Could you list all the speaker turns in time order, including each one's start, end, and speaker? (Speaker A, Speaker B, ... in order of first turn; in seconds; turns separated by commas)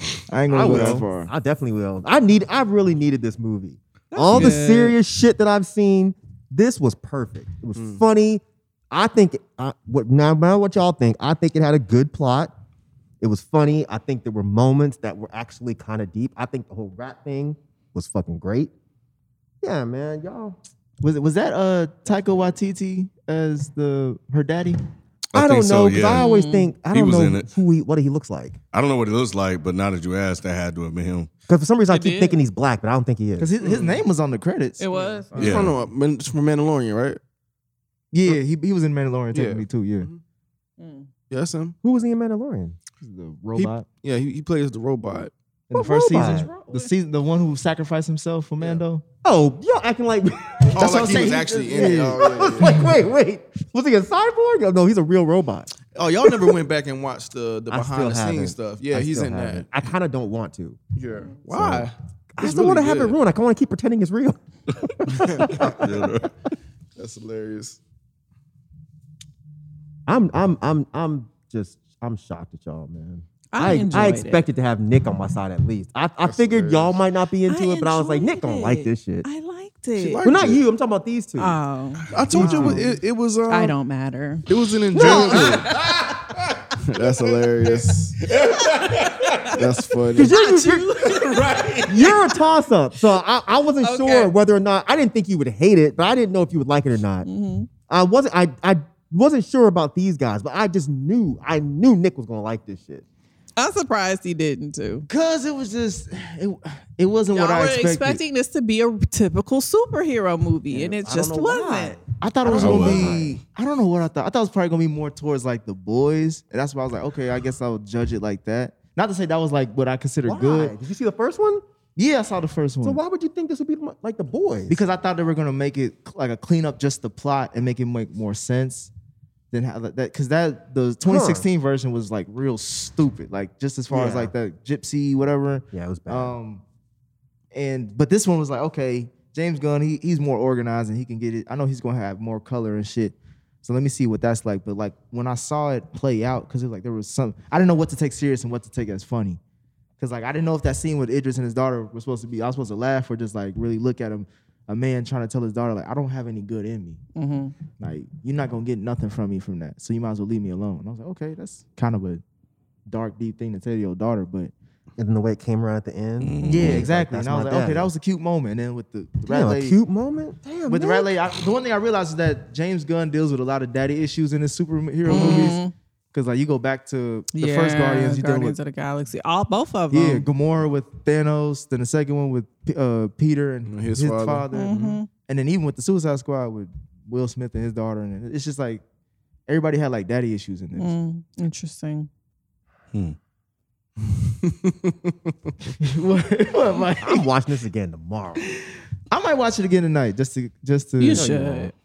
Speaker A: 0.3-1.3, Speaker B: 0.5-12.5, Speaker C: 0.6-1.0, Speaker D: 4.1-5.0, Speaker C: 7.8-8.0, Speaker B: 13.2-18.7, Speaker B: 19.6-20.6, Speaker A: 21.0-24.8, Speaker E: 25.3-26.2, Speaker B: 25.3-28.6, Speaker D: 26.1-26.7, Speaker E: 26.9-27.5, Speaker E: 28.7-31.3, Speaker B: 31.5-33.5, Speaker D: 31.9-32.4, Speaker A: 33.4-35.7, Speaker C: 33.6-34.0, Speaker D: 34.8-35.5, Speaker C: 35.3-37.2, Speaker E: 35.4-35.7, Speaker A: 38.1-40.1, Speaker C: 39.3-40.2, Speaker D: 40.8-41.1, Speaker C: 41.3-41.8, Speaker B: 41.8-42.8, Speaker A: 43.0-43.9, Speaker C: 43.5-45.3, Speaker A: 45.7-49.0, Speaker B: 45.7-46.5, Speaker B: 49.2-55.7, Speaker A: 50.7-52.8, Speaker C: 50.7-52.8, Speaker C: 55.9-59.7, Speaker B: 57.7-60.8, Speaker C: 61.0-63.2, Speaker B: 61.5-64.4, Speaker E: 65.2-66.3, Speaker C: 65.2-65.6, Speaker B: 65.3-65.8, Speaker C: 67.0-67.8, Speaker B: 70.1-79.3, Speaker D: 73.5-74.5, Speaker C: 76.2-77.0, Speaker D: 77.5-80.2, Speaker C: 80.0-80.6, Speaker B: 80.2-81.5, Speaker D: 81.4-82.9, Speaker C: 82.1-83.7, Speaker A: 82.3-82.8, Speaker B: 82.4-82.7, Speaker D: 83.5-84.5, Speaker C: 84.5-85.7, Speaker B: 84.9-85.7, Speaker D: 85.0-85.7, Speaker E: 85.7-86.0, Speaker C: 86.8-88.2, Speaker E: 88.3-89.4, Speaker D: 88.8-89.5, Speaker C: 89.5-90.3, Speaker B: 90.1-91.0, Speaker D: 90.3-91.5, Speaker E: 91.2-91.9, Speaker B: 91.8-97.3, Speaker D: 93.8-94.3, Speaker D: 97.2-97.7, Speaker B: 97.9-103.0, Speaker D: 103.6-105.1, Speaker A: 105.1-108.2, Speaker D: 107.3-112.0, Speaker B: 110.7-113.4, Speaker A: 112.2-120.7, Speaker E: 112.5-113.1, Speaker B: 120.2-121.6, Speaker A: 122.0-123.0, Speaker B: 122.8-124.8, Speaker A: 124.7-128.9, Speaker A: 129.5-136.6, Speaker B: 131.0-131.4, Speaker B: 133.9-134.3, Speaker B: 135.7-136.4, Speaker A: 137.5-149.4, Speaker A: 150.0-157.0, Speaker D: 157.2-157.5, Speaker A: 157.8-162.2, Speaker A: 162.9-164.5, Speaker B: 165.0-167.9, Speaker E: 166.2-166.9, Speaker A: 166.4-169.8, Speaker B: 169.2-171.1, Speaker A: 170.7-175.6, Speaker D: 175.1-175.7, Speaker A: 176.1-178.6, Speaker D: 177.3-180.3, Speaker A: 179.9-188.8, Speaker C: 183.7-185.0, Speaker D: 184.5-185.1, Speaker A: 189.5-190.9, Speaker D: 190.8-192.1, Speaker C: 194.0-195.5, Speaker A: 195.8-197.3, Speaker B: 197.0-198.4, Speaker A: 199.1-201.3, Speaker D: 201.0-201.7, Speaker B: 201.1-201.7